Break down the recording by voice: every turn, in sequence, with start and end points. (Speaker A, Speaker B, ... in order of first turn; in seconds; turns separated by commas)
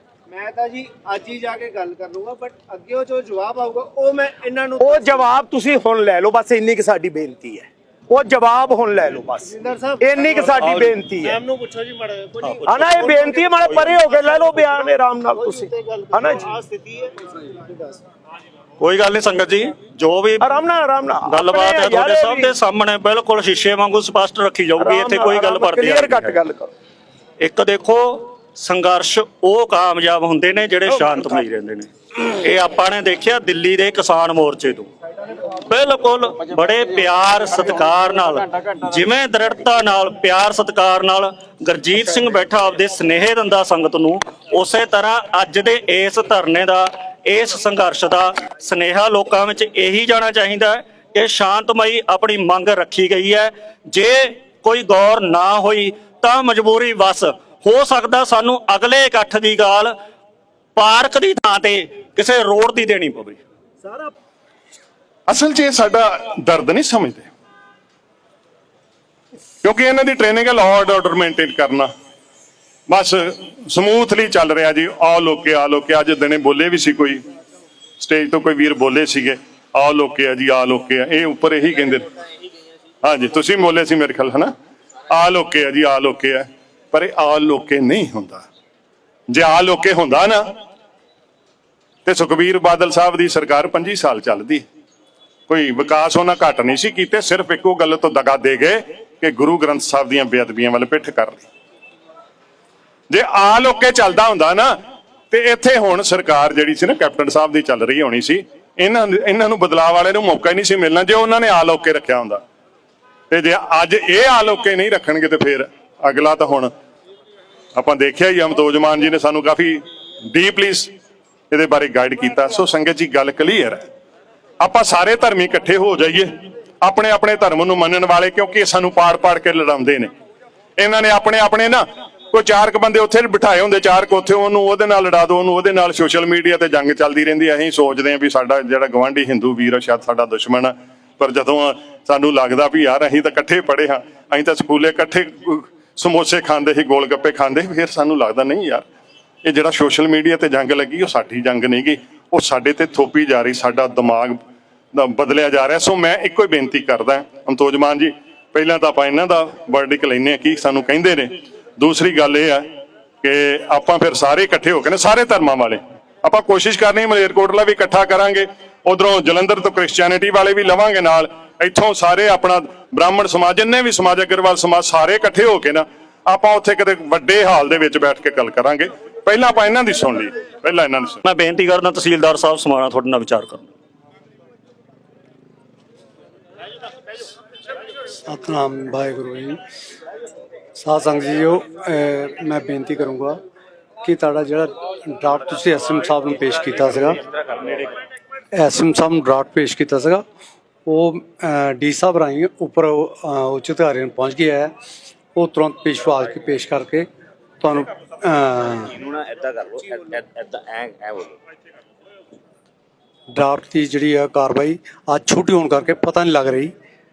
Speaker A: 0.3-5.3, Speaker B: 4.8-11.4, Speaker A: 9.4-18.0, Speaker C: 12.4-12.8, Speaker B: 12.7-16.4, Speaker C: 18.8-20.4, Speaker B: 20.4-22.5, Speaker C: 21.3-26.4, Speaker B: 24.8-26.7, Speaker C: 27.4-34.9, Speaker C: 35.5-59.9, Speaker C: 60.8-63.4, Speaker D: 65.3-67.3, Speaker D: 69.6-71.9, Speaker D: 72.9-77.2, Speaker D: 78.0-82.1, Speaker D: 83.0-84.5, Speaker D: 85.1-88.5, Speaker D: 89.3-90.5, Speaker D: 92.0-94.7, Speaker D: 95.5-101.5, Speaker D: 103.1-104.8, Speaker D: 105.3-112.4, Speaker D: 113.3-116.7, Speaker D: 117.7-120.9, Speaker D: 121.5-123.9, Speaker D: 124.6-130.1, Speaker D: 130.8-148.8, Speaker D: 149.4-154.4, Speaker D: 154.9-181.2, Speaker C: 181.2-183.7, Speaker E: 188.2-189.6, Speaker E: 190.8-193.4, Speaker E: 194.0-197.2, Speaker E: 198.5-200.2, Speaker E: 200.8-204.7, Speaker E: 205.3-207.1, Speaker E: 207.6-209.0, Speaker F: 209.0-211.3, Speaker E: 213.3-216.7